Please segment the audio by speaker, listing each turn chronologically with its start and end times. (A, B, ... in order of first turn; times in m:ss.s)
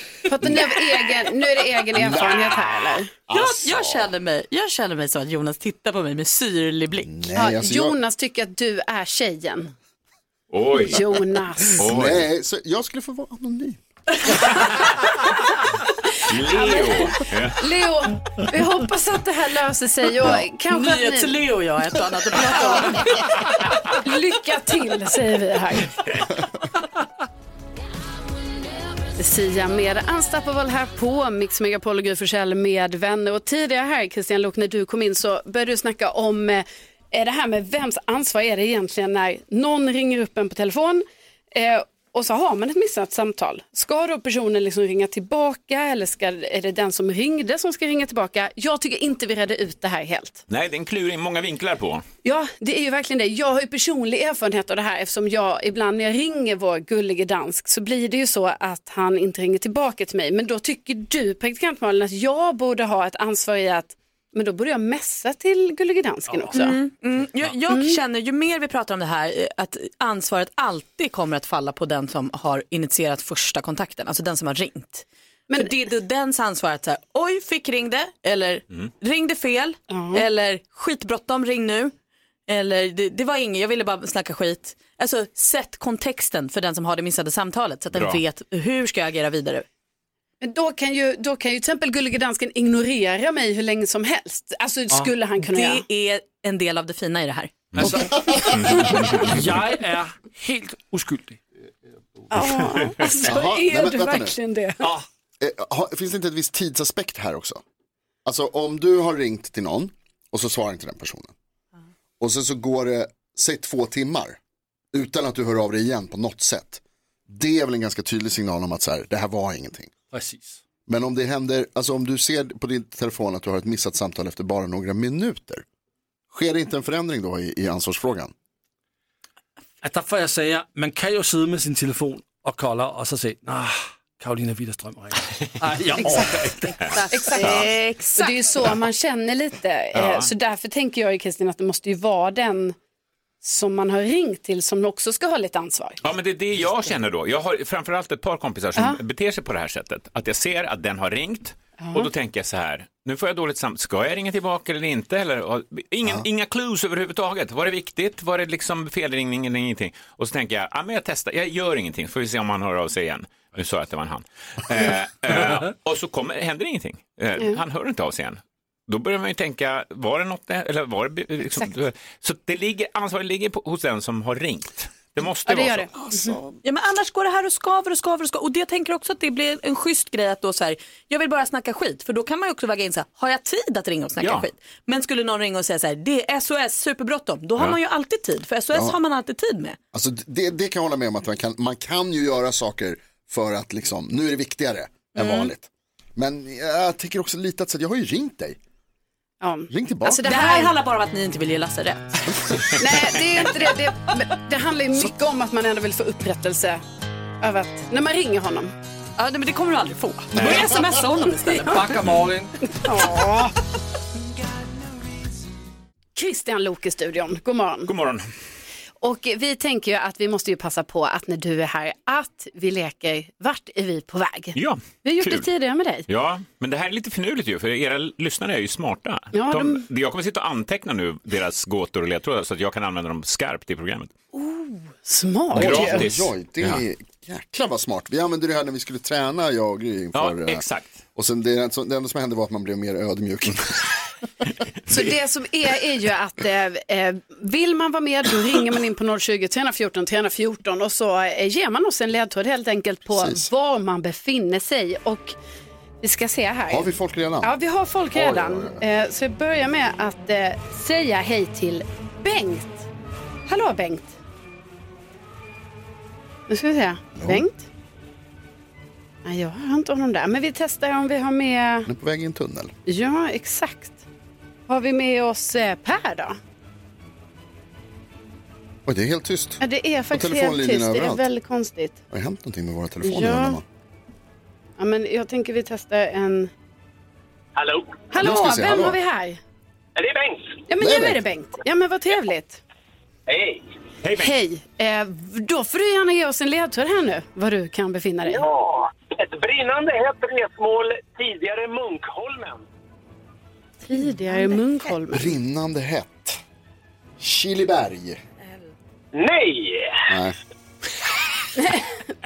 0:00.2-0:03.1 A
0:01.9-0:02.7 B
0:03.3-0:04.1 B
0:03.3-0:07.1 C
0:07.0-0:08.0 B
0:07.3-0:09.7 A
0:10.5-0:11.0 D
0:10.8-0:11.9 A
0:11.8-0:13.8 B
0:11.8-0:12.2 D
0:16.2-0:17.7 D
0:16.3-0:21.4 A
0:20.7-0:23.1 C
0:22.5-0:23.1 A
0:24.0-0:25.9 A
0:29.2-0:50.4 A
0:50.5-0:52.0 D
0:52.2-1:06.8 A
1:06.3-1:06.6 E
1:06.5-1:21.9 C
1:07.7-1:08.0 A
1:19.9-1:20.2 A
1:22.5-1:29.6 C
1:27.9-1:28.2 D
1:30.4-1:35.8 A
1:35.4-1:37.7 C
1:37.7-1:39.3 D
1:37.8-1:41.4 E
1:42.3-1:44.9 A
1:42.6-1:43.0 D
1:43.2-1:44.3 B
1:45.4-1:47.6 B
1:48.2-1:51.3 B
1:52.2-1:54.4 B
1:54.9-1:59.9 B
2:00.1-2:00.6 E
2:00.9-2:05.6 B
2:06.3-2:08.3 B
2:09.8-2:17.2 E
2:16.0-2:16.5 A
2:16.8-2:18.3 C
2:17.1-2:22.8 A
2:17.4-2:17.7 D
2:19.9-2:20.3 D
2:23.4-2:26.0 A
2:26.0-2:55.9 D
2:28.7-2:29.0 A
2:31.8-2:32.1 A
2:55.4-2:56.4 A
2:56.6-3:09.8 C
3:04.2-3:04.5 D
3:09.9-3:18.6 B
3:15.2-3:15.5 C
3:19.4-3:20.7 A
3:19.7-3:20.4 B
3:20.2-3:22.1 C
3:22.8-3:26.8 A
3:27.4-3:28.7 A
3:29.2-3:32.0 C
3:30.3-3:30.9 D
3:31.6-3:32.5 E
3:32.0-3:32.2 D
3:32.8-3:33.5 A
3:36.1-3:37.9 A
3:37.8-3:38.3 D
3:39.0-3:46.0 A
3:44.5-3:45.5 D
3:46.1-3:54.1 D
3:49.3-3:49.8 A
3:54.3-3:56.1 A
3:55.5-3:56.8 D
3:55.5-4:00.6 B
4:00.1-4:01.0 D
4:01.1-4:03.9 B
4:04.9-4:15.3 A
4:13.1-4:13.5 B
4:16.0-4:16.9 A
4:16.7-4:17.5 B
4:17.4-4:22.9 A
4:18.1-4:18.8 B
4:23.5-4:24.2 A
4:26.5-4:27.6 A
4:27.2-4:27.4 B
4:29.2-4:31.9 A
4:31.8-4:32.7 B
4:32.8-4:34.0 A
4:34.7-4:36.4 A
4:38.8-4:39.6 B
4:39.6-4:42.0 A
4:40.1-4:41.2 B
4:42.1-4:43.6 B
4:43.0-4:43.6 A
4:44.8-4:46.5 A
4:47.6-4:48.0 F
4:48.1-4:49.4 A
4:48.2-4:49.0 B
4:50.0-4:50.6 F
4:50.7-4:52.6 A
4:50.8-4:51.2 B
4:53.3-4:53.6 F
4:54.0-4:54.4 D
4:54.2-4:58.4 A
4:58.2-5:02.6 F
5:03.8-5:05.3 A
5:05.1-5:06.4 B
5:07.2-5:08.2 B
5:09.1-5:10.0 F
5:10.1-5:10.4 B
5:11.6-5:11.9 A